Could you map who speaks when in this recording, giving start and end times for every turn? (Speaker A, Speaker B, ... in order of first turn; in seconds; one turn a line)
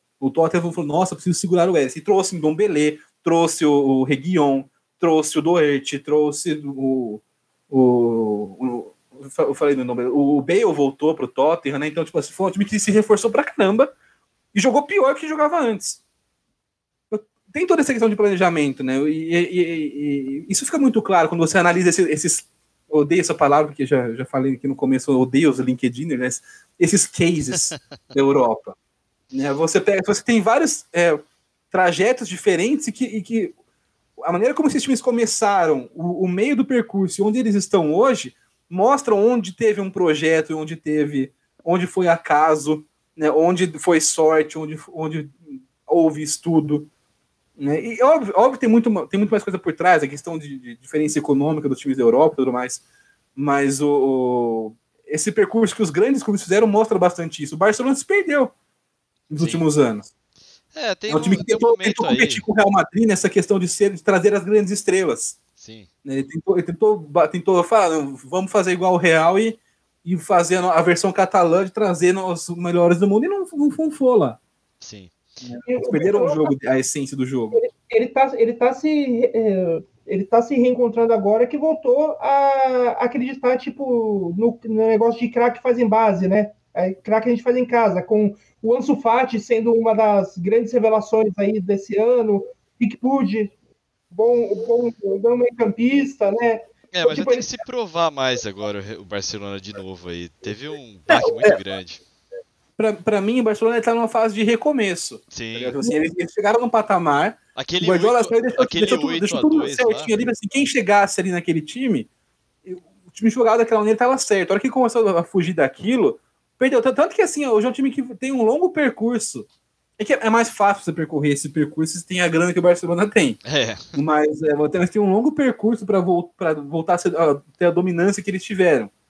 Speaker A: 0.2-13.9
Speaker A: 14.5-16.0
Speaker A: 17.1-28.7
Speaker A: 29.3-33.5
Speaker A: 34.2-46.9
Speaker A: 47.6-52.8
Speaker A: 53.4-58.5
Speaker A: 59.3-60.1
Speaker B: 59.4-59.6
Speaker B: 60.7-62.4
Speaker A: 61.1-65.4
Speaker B: 65.6-65.9
Speaker A: 66.0-74.4
Speaker B: 74.8-75.1
Speaker A: 75.4-77.6
Speaker C: 75.6-76.5
Speaker C: 77.5-93.5
Speaker C: 94.1-97.5
Speaker B: 96.9-102.0
Speaker A: 101.1-101.6
Speaker A: 102.8-112.1
Speaker B: 105.3-105.7
Speaker B: 107.5-110.1
Speaker A: 112.6-119.5
Speaker A: 120.0-123.4
Speaker B: 123.4-123.9
Speaker A: 123.9-128.9